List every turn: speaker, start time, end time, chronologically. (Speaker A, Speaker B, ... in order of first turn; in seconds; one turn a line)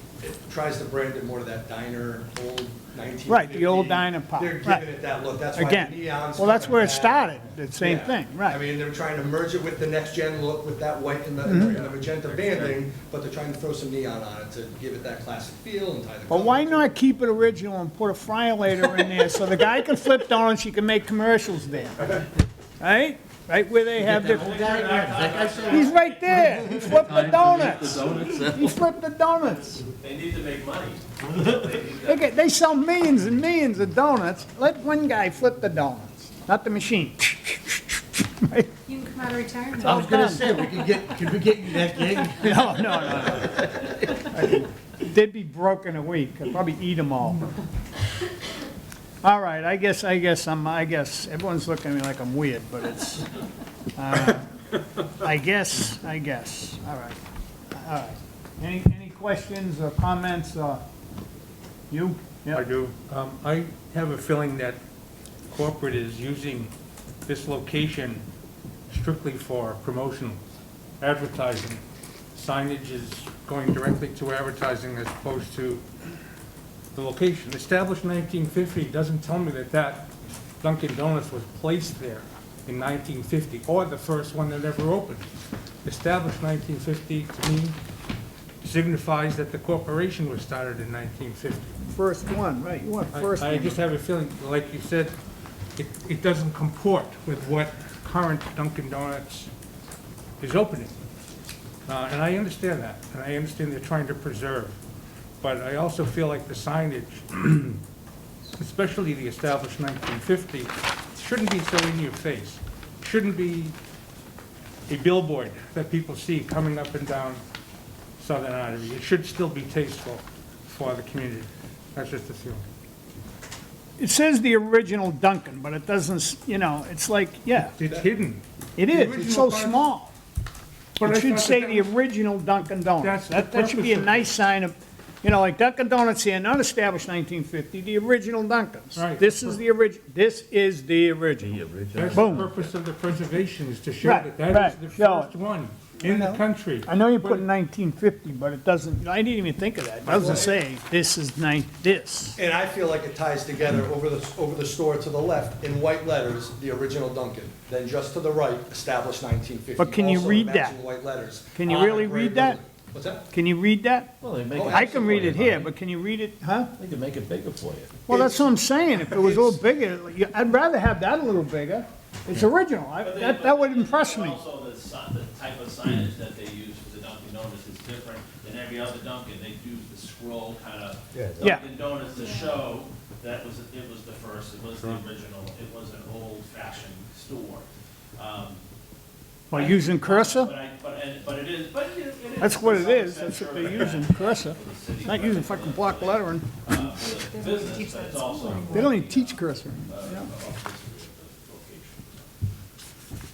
Speaker A: 0.2-16.9
Speaker B: 3.3-4.9
Speaker B: 5.5-8.6
Speaker B: 11.4-11.8
Speaker B: 16.3-22.3
Speaker B: 22.8-24.7
Speaker C: 24.0-28.6
Speaker D: 24.1-28.6
Speaker B: 25.6-29.8
Speaker D: 29.8-32.2
Speaker B: 32.0-38.7
Speaker E: 38.9-40.0
Speaker B: 39.8-40.6
Speaker C: 39.8-44.1
Speaker E: 40.6-41.0
Speaker B: 42.4-47.5
Speaker B: 49.2-53.2
Speaker B: 54.0-54.5
Speaker B: 55.2-57.2
Speaker B: 57.7-60.8
Speaker B: 61.9-62.7
Speaker F: 62.5-64.8
Speaker F: 65.5-66.7
Speaker F: 67.3-68.2
Speaker F: 68.9-70.4
Speaker F: 71.0-71.8
Speaker F: 72.3-75.8
Speaker F: 76.9-85.3
Speaker F: 85.8-87.8
Speaker F: 88.6-91.8
Speaker B: 91.9-93.8
Speaker F: 93.1-95.2
Speaker F: 95.8-99.5
Speaker F: 100.4-100.9
Speaker F: 101.9-104.8
Speaker F: 105.4-107.8
Speaker F: 108.6-113.8
Speaker F: 114.9-117.4
Speaker F: 118.2-122.7
Speaker B: 124.0-127.8
Speaker F: 127.8-129.9
Speaker B: 128.8-130.1
Speaker F: 131.0-131.9
Speaker B: 131.0-141.6
Speaker F: 133.0-134.3
Speaker F: 138.9-139.6
Speaker C: 141.4-142.5
Speaker F: 141.9-147.5
Speaker B: 142.1-142.5
Speaker B: 144.0-145.3
Speaker B: 146.0-152.4
Speaker A: 150.1-150.6
Speaker A: 152.4-163.3
Speaker B: 159.8-160.8
Speaker B: 161.6-162.6
Speaker B: 163.3-164.1
Speaker D: 164.2-165.7
Speaker A: 164.5-165.3
Speaker B: 164.7-166.7
Speaker D: 166.8-167.9
Speaker B: 168.1-174.4
Speaker A: 168.1-168.5
Speaker A: 169.1-169.6
Speaker D: 173.0-187.7
Speaker C: 181.1-181.5
Speaker B: 181.4-181.7
Speaker E: 182.1-182.6
Speaker D: 188.2-188.6
Speaker B: 189.5-190.6
Speaker D: 189.5-202.3
Speaker B: 192.4-196.5
Speaker E: 197.0-199.0
Speaker B: 198.7-200.3